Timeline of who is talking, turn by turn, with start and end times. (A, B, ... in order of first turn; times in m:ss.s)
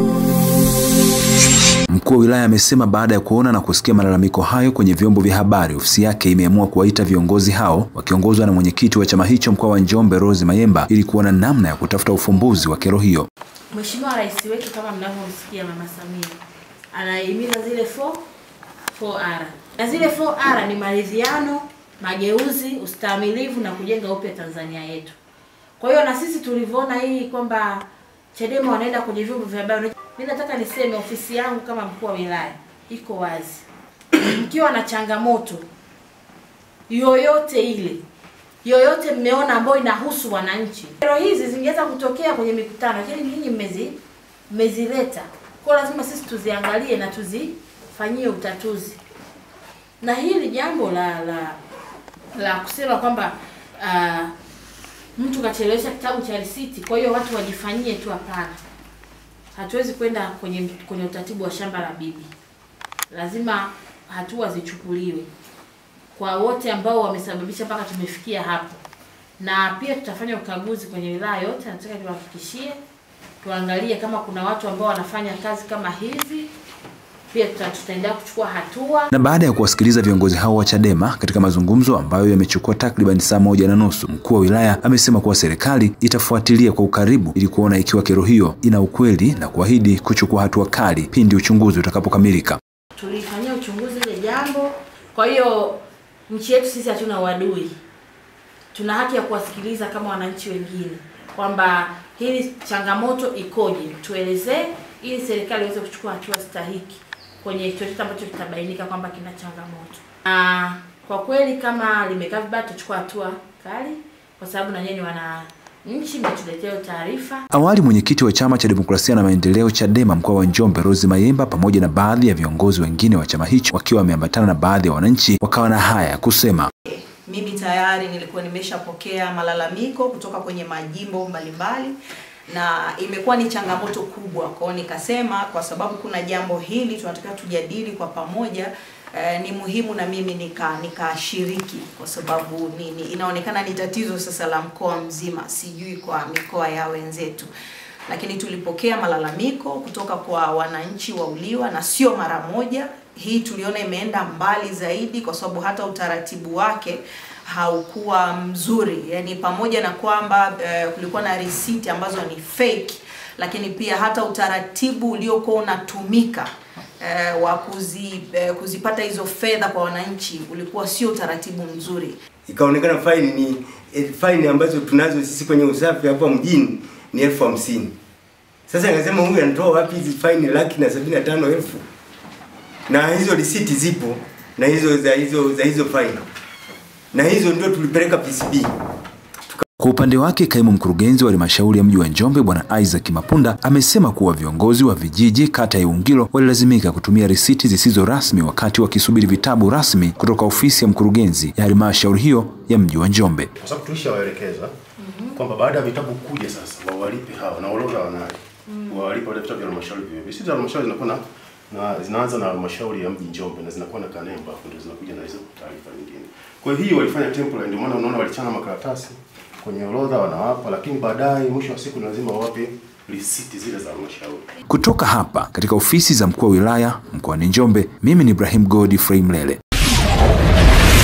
0:01.9-0:13.3 A
0:13.7-0:16.4 B
0:16.9-0:18.2 B
0:18.9-0:25.2 B
0:25.8-0:35.6 B
0:36.9-0:38.0 B
0:38.6-0:44.0 B
0:44.5-0:49.0 B
0:50.0-0:51.6 B
0:52.3-0:54.3 B
0:55.2-0:58.6 B
0:59.5-1:02.3 B
1:03.1-1:05.3 B
1:06.1-1:08.8 B
1:09.4-1:12.8 B
1:13.4-1:16.5 B
1:17.3-1:19.1 B
1:19.1-1:32.6 A
1:32.9-1:37.7 B
1:38.7-1:57.4 B
1:57.5-2:06.7 A
2:06.8-2:12.0 C
2:12.5-2:27.5 C
2:28.1-2:46.5 C
2:47.0-2:52.2 C
2:52.5-2:57.9 D
2:58.7-3:01.8 D
3:02.9-3:06.2 D
3:07.1-3:08.7 D
3:09.8-3:23.5 A
3:23.6-3:24.7 E
3:25.3-3:44.5 E
3:44.7-3:49.6 A